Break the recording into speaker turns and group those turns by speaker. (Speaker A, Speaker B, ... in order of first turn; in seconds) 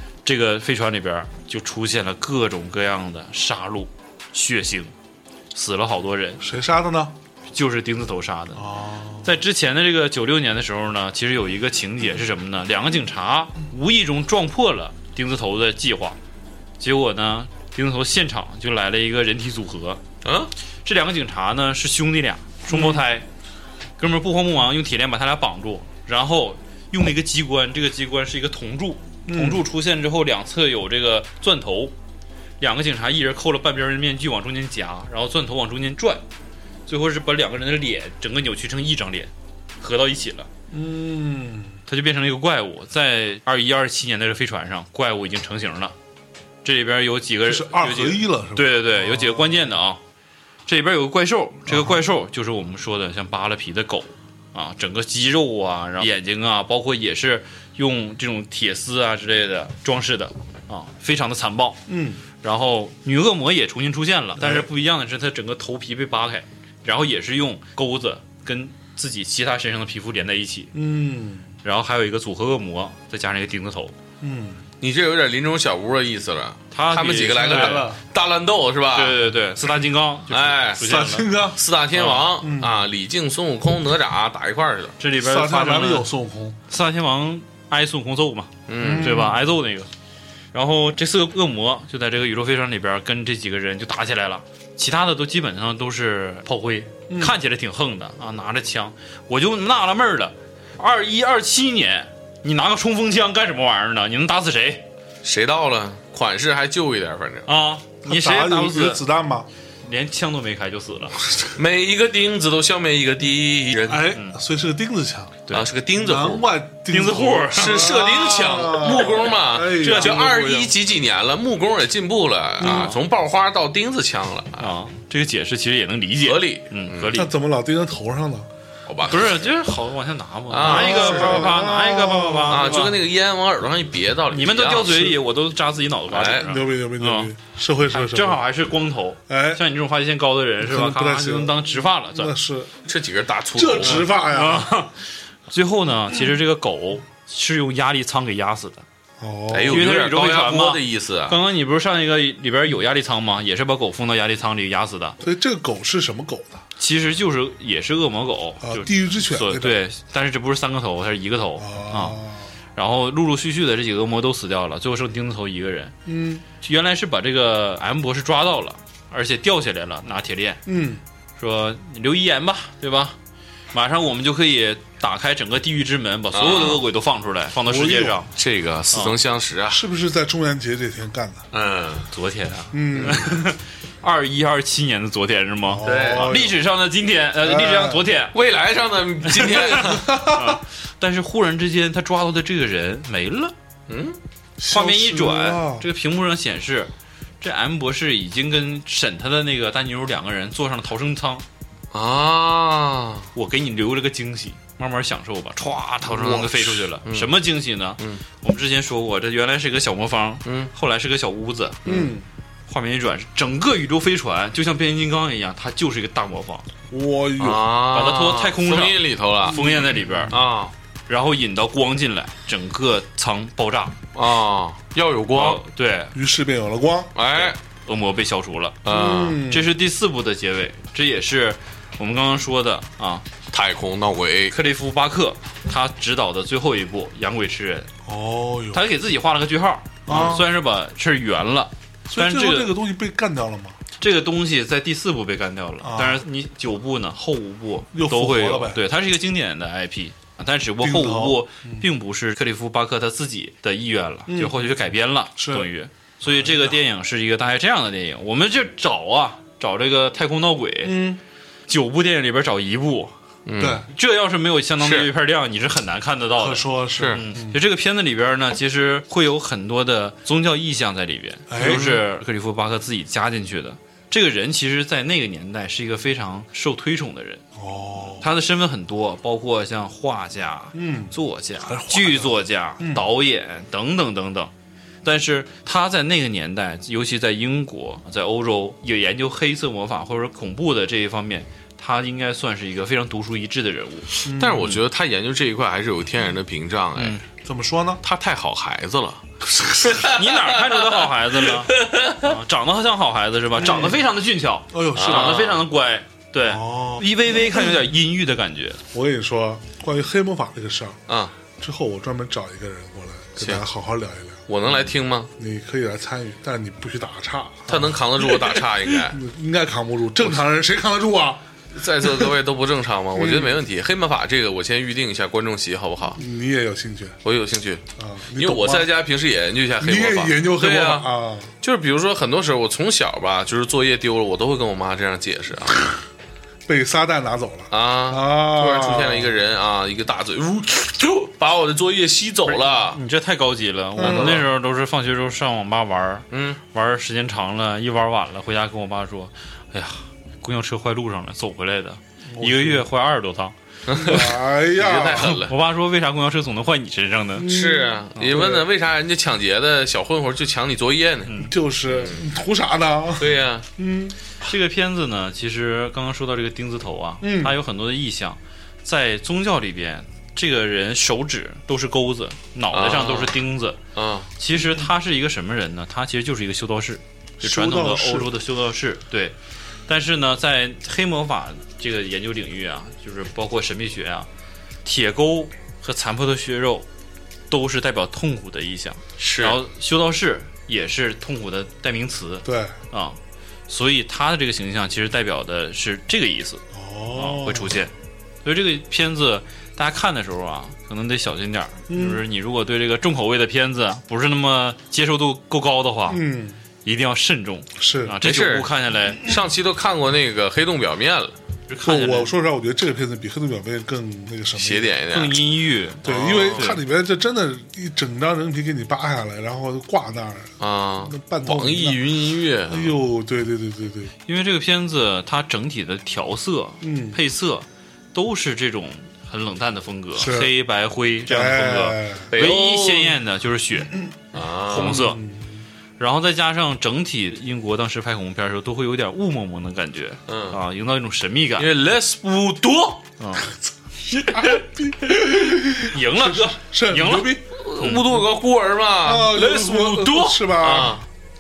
Speaker A: 0.2-4.9, 5.5-6.4, 7.5-8.6, 9.2-16.2, 16.8-20.0, 20.9-23.3, 24.0-31.9, 32.6-36.2, 36.9-40.5, 41.9-46.0, 46.6-50.0, 50.7-61.8, 62.4-70.7, 71.6-74.0, 76.7-77.9, 78.9-81.3, 81.9-82.3, 85.0-86.1, 86.7-89.9, 90.5-104.8, 107.5-109.0, 109.8-111.2, 114.1-114.4, 116.9-117.9, 119.8-120.3, 122.6-123.0, 124.6-127.3, 129.1-132.9, 134.3-137.3, 137.9-142.3, 143.8-144.9, 145.5-148.8, 149.7-155.2, 156.8-162.2, 162.8-165.9, 166.6-170.6, 171.4-173.2, 173.7-178.3, 182.1-188.3, 189.3-193.5, 194.7-201.4, 203.3-211.9, 212.7-216.7, 217.9-220.4, 221.1-224.0, 225.3-226.1, 227.4-228.8, 229.5-233.2, 234.5-237.9, 238.7-242.8, 244.0-261.0, 261.7-263.1, 263.9-277.4, 278.2-284.5, 285.0-294.1, 297.0-297.2, 299.9-308.8, 342.9-354.2, 355.2-357.5, 364.4-373.8, 374.4-379.4, 379.9-384.3, 384.8-386.9, 387.5-393.2, 393.7-396.6, 397.2-397.9, 398.4-406.2, 406.8-409.2, 411.7-412.3, 415.1-416.8, 424.3-433.9, 434.7-435.2, 436.0-441.7, 443.2-443.5, 445.7-448.1
Speaker B: 6.4-7.1, 8.6-9.3, 22.7-23.0, 29.3-29.6, 40.7-41.8, 47.5-49.7, 51.7-52.0, 61.9-62.2, 64.4-64.7, 70.7-71.5, 74.2-74.6, 77.2-78.0, 80.8-81.6, 82.4-82.8, 85.2-86.6, 88.8-89.5, 97.1-97.4, 108.0-109.5, 113.9-115.4, 116.0-120.7, 122.6-123.0, 127.1-128.5, 130.6-132.9, 136.3-138.4, 139.3-139.6, 140.6-142.8, 143.5-144.7, 149.2-149.8, 155.2-156.6, 158.6-159.8, 161.6-162.5, 166.1-166.4, 170.7-171.0, 177.7-178.2, 179.7-181.4, 182.7-183.3, 185.7-186.6, 187.4-188.1, 189.8-190.5, 194.6-195.8, 211.9-212.2, 216.9-217.7, 219.5-220.4, 226.1-227.1, 228.9-229.7, 238.1-238.8, 240.1-240.4, 242.1-243.8, 245.8-246.2, 247.9-248.8, 250.8-251.9, 254.3-254.6, 255.4-255.7, 256.2-256.8, 260.8-261.2, 263.6-263.9, 266.4-267.6, 271.5-272.0, 277.6-278.3, 280.7-283.1, 294.2-294.8, 297.4-298.0, 299.6-299.9, 303.6-304.0, 304.7-305.5, 306.4-307.8, 308.9-311.0, 311.6-314.4, 315.4-321.4, 323.2-323.6, 326.2-327.2, 328.0-328.9, 329.8-331.5, 336.7-339.3, 344.0-344.4, 352.3-352.9, 354.0-355.4, 357.4-358.7, 361.4-364.2, 367.2-367.6, 374.6-374.9, 377.4-378.3, 392.4-392.8, 396.7-397.8, 401.9-402.2, 406.1-406.6, 407.8-408.2, 411.8-415.0, 416.0-422.1, 422.7-424.1, 426.8-427.2, 430.2-430.5, 431.3-432.3, 434.7-435.6, 444.1-447.4, 449.0-451.0
Speaker C: 20.2-20.5, 74.8-79.2, 80.3-85.0, 88.7-89.2, 105.2-107.5, 111.5-114.1, 115.5-116.5, 117.5-124.8, 126.2-127.2, 128.9-129.5, 130.5-131.6, 132.5-135.1, 136.1-136.5, 142.8-144.1, 149.5-151.4, 176.3-176.8, 178.3-179.8, 181.5-182.1, 182.9-183.2, 185.8-186.4, 188.3-190.1, 193.9-194.2, 201.9-203.3, 207.0-207.3, 210.4-210.7, 211.8-212.1, 217.4-219.6, 220.3-220.7, 224.1-225.6, 227.2-227.6, 228.8-229.4, 233.5-234.5, 240.1-240.4, 263.5-263.9, 264.8-265.1, 266.9-267.2, 271.6-272.0, 294.3-297.2, 298.0-302.3, 304.9-305.7, 311.1-311.3, 313.4-313.6, 314.5-315.3, 317.7-319.2, 321.7-326.2, 327.2-327.8, 328.4-331.1, 331.6-335.8, 337.7-343.0, 344.0-344.4, 346.3-346.6, 353.9-355.5, 357.4-361.4, 361.9-362.3, 363.2-363.7, 372.7-373.4, 373.9-374.3, 389.2-389.6, 408.2-411.4, 414.6-415.4, 416.0-416.8, 420.6-423.0, 432.3-433.2, 434.3-435.0, 440.3-440.6, 441.6-443.1, 444.3-444.6, 447.5-451.1